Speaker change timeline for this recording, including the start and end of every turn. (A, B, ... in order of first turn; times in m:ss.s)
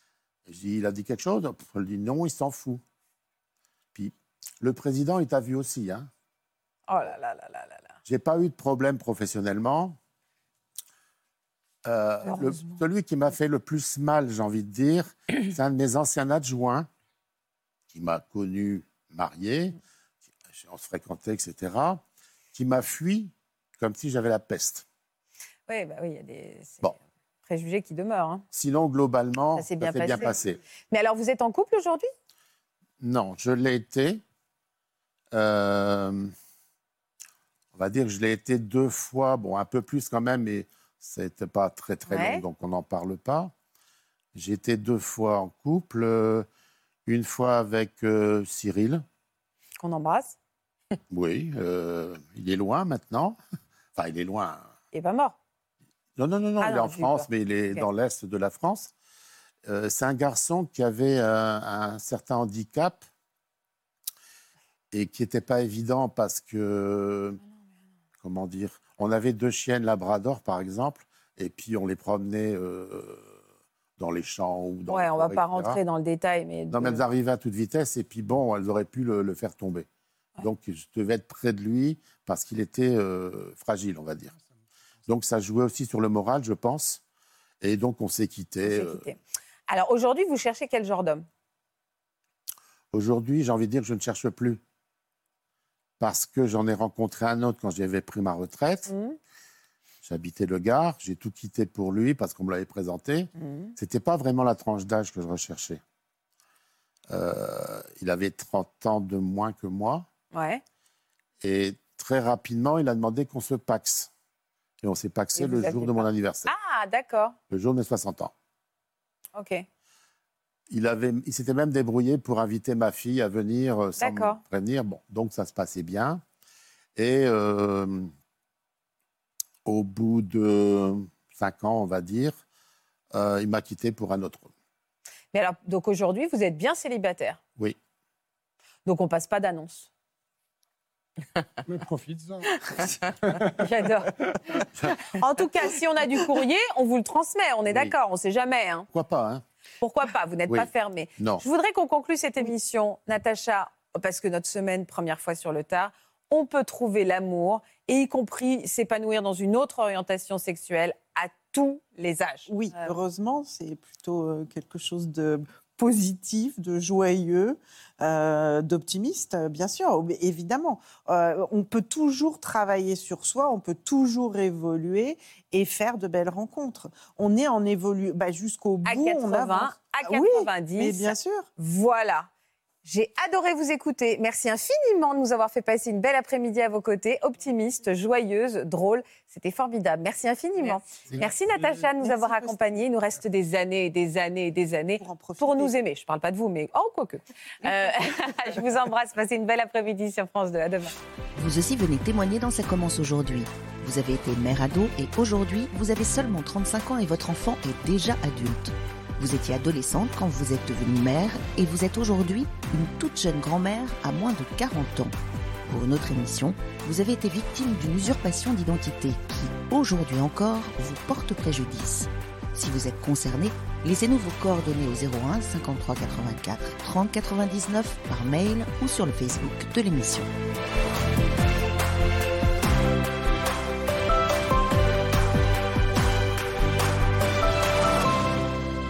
0:00.5-0:02.8 A
0:03.9-0:06.1 A
0:06.9-0:08.0 B
0:08.1-0:10.0 A
0:11.8-0:16.9 A
0:12.2-0:12.8 B
0:17.9-0:19.8 A
0:20.5-0:22.0 A
0:22.5-0:24.8 A
0:25.7-0:26.9 B
0:27.5-0:28.4 B
0:28.5-0:30.6 A
0:29.6-0:30.3 B
0:30.9-0:32.1 B
0:33.0-0:34.2 A
0:35.3-0:36.3 A
0:37.7-0:43.5 A
0:42.1-0:42.4 B
0:44.3-0:46.5 A
0:47.1-0:49.0 A
0:49.8-0:50.4 B
0:51.1-0:53.4 A
0:54.0-0:54.7 A
0:54.9-0:55.4 B
0:56.2-0:58.9 A
0:56.6-0:57.9 B
0:59.6-1:03.0 A
1:04.9-1:07.4 A
1:08.2-1:13.4 A
1:14.0-1:15.8 A
1:14.9-1:17.0 B
1:16.7-1:19.9 A
1:20.4-1:24.3 A
1:25.1-1:27.0 A
1:27.6-1:29.1 A
1:28.6-1:29.2 B
1:29.7-1:31.3 B
1:32.9-1:34.6 A
1:36.0-1:38.9 A
1:38.9-1:39.2 B
1:40.0-1:45.8 A
1:43.4-1:43.8 B
1:47.1-1:50.1 A
1:50.3-1:50.6 B
1:51.4-1:54.1 A
1:54.8-1:56.5 A
1:55.4-1:57.4 B
1:57.5-1:58.3 A
1:59.4-1:59.6 B
2:00.7-2:06.2 A
2:04.0-2:04.4 B
2:07.0-2:08.1 A
2:09.6-2:12.4 A
2:13.1-2:14.5 A
2:15.3-2:17.4 B
2:18.9-2:19.9 B
2:21.6-2:24.6 C
2:23.4-2:24.2 B
2:25.0-2:28.9 B
2:27.7-2:27.9 A
2:28.9-2:29.4 A
2:29.8-2:43.0 B
2:30.5-2:31.4 A
2:42.5-3:01.5 D
2:58.9-3:02.3 B
3:02.8-3:20.9 B
3:12.0-3:12.8 D
3:15.0-3:15.7 D
3:21.4-3:35.1 E
3:35.7-3:50.3 E